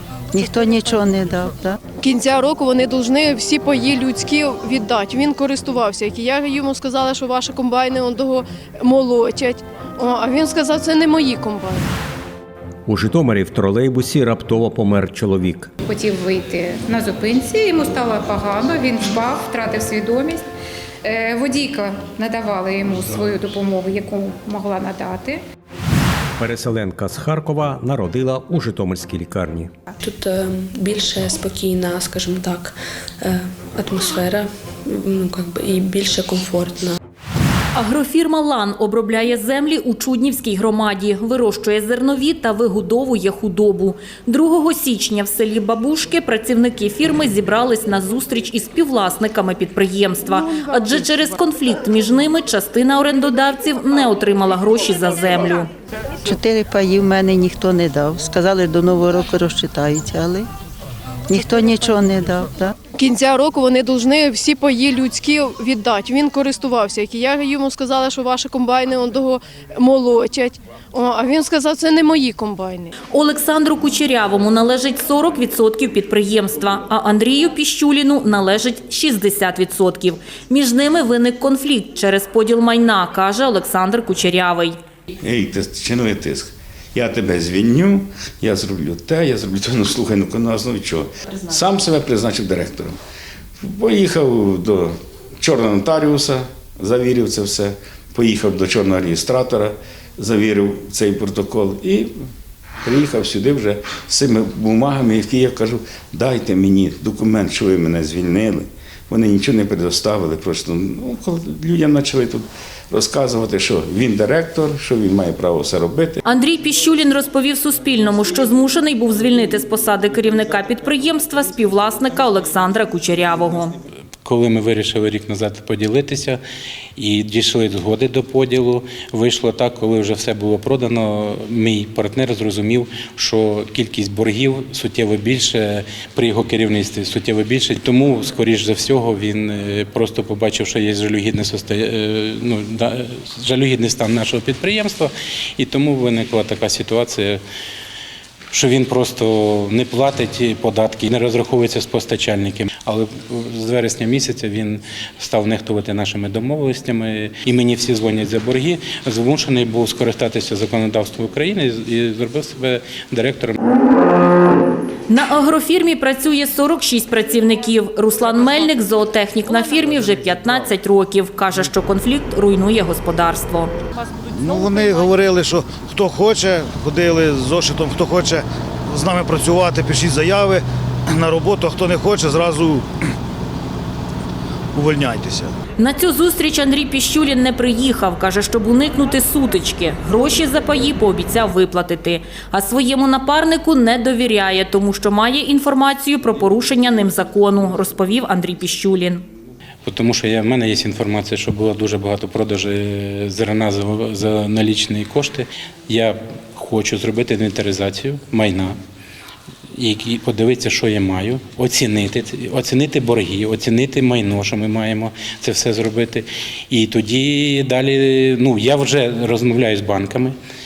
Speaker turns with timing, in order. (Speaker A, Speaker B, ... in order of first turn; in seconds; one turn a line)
Speaker A: 0.3-1.8
Speaker B: 2.0-11.9
Speaker C: 12.9-15.7
Speaker D: 15.8-20.5
Speaker D: 21.0-25.4
Speaker C: 26.4-29.7
Speaker E: 30.0-37.0
Speaker F: 37.7-55.7
Speaker A: 56.3-60.5
Speaker A: 61.3-62.7
Speaker B: 63.0-72.9
Speaker F: 73.1-84.8
Speaker G: 85.2-93.0
Speaker G: 93.6-102.1
Speaker G: 102.8-116.2
Speaker F: 116.2-123.7
Speaker H: 124.2-126.4
Speaker H: 127.0-147.4
Speaker H: 148.5-163.6
Speaker F: 165.1-173.7
Speaker G: 174.4-175.9
Speaker I: 175.5-180.6
Speaker I: 181.2-182.8
Speaker I: 184.8-185.5
Speaker F: 185.8-199.2
Speaker H: 199.8-208.8
Speaker H: 209.8-220.3